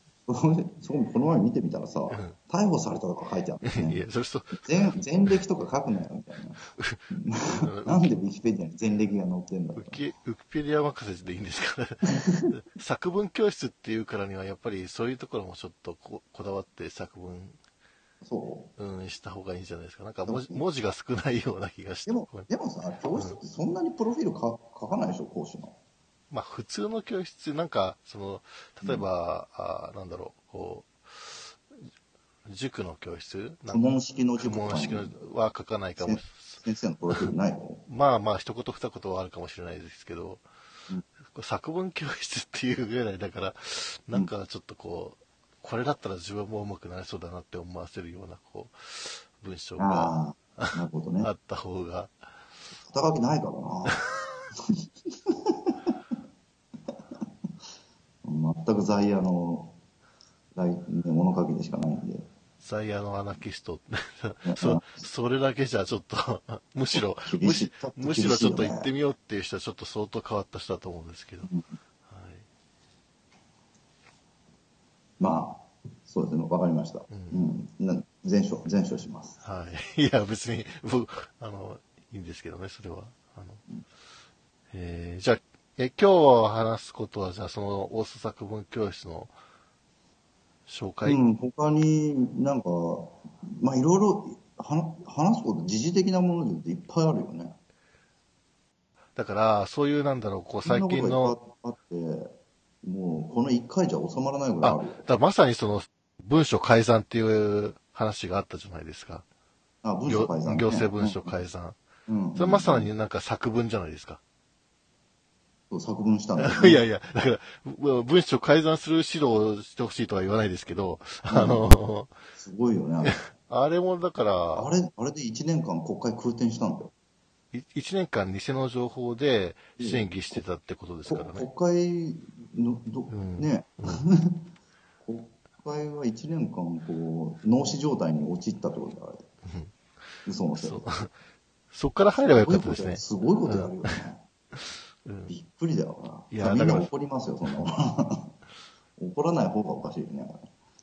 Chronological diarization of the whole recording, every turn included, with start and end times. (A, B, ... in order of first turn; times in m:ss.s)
0:00.3-0:04.0 A
0:02.1-0:02.4 B
0:03.7-0:05.3 B
0:04.6-0:10.0 A
0:06.8-0:08.1 B
0:09.8-0:17.6 B
0:12.1-0:12.6 A
0:18.2-0:18.7 A
0:18.8-0:22.5 B
0:20.3-0:20.6 A
0:22.1-0:25.8 A
0:26.3-0:31.6 B
0:32.5-0:36.6 B
0:33.7-0:35.3 A
0:36.0-0:37.8 A
0:37.9-0:40.4 B
0:41.3-0:52.2 B
0:49.8-0:51.3 A
0:52.9-0:54.1 A
0:54.7-0:55.8 A
0:58.2-0:59.8 A
1:00.6-1:02.3 A
1:02.6-1:11.5 B
1:04.4-1:05.1 A
1:07.0-1:08.9 A
1:11.4-1:11.7 A
1:12.0-1:12.4 B
1:15.2-1:19.4 A
1:17.1-1:17.4 B
1:19.4-1:23.6 B
1:24.7-1:29.3 B
1:30.7-1:31.2 B
1:31.0-1:37.6 A
1:39.2-1:41.4 B
1:40.6-1:45.1 A
1:44.6-1:49.3 B
1:49.8-1:51.4 A
1:50.1-1:51.8 B
1:52.1-1:52.9 A
1:52.4-1:54.2 B
1:55.7-1:56.8 A
1:56.4-2:02.2 B
2:01.3-2:01.8 A
2:02.4-2:03.2 A
2:03.0-2:04.7 B
2:04.6-2:06.9 A
2:07.5-2:11.5 B
2:09.8-2:10.4 A
2:11.1-2:14.5 A
2:13.1-2:14.0 B
2:15.0-2:19.3 A
2:19.4-2:19.7 B
2:20.2-2:20.9 A
2:20.6-2:21.1 B
2:21.7-2:24.0 B
2:22.2-2:24.2 A
2:25.0-2:25.3 B
2:25.3-2:28.3 A
2:26.3-2:26.9 B
2:29.0-2:30.5 A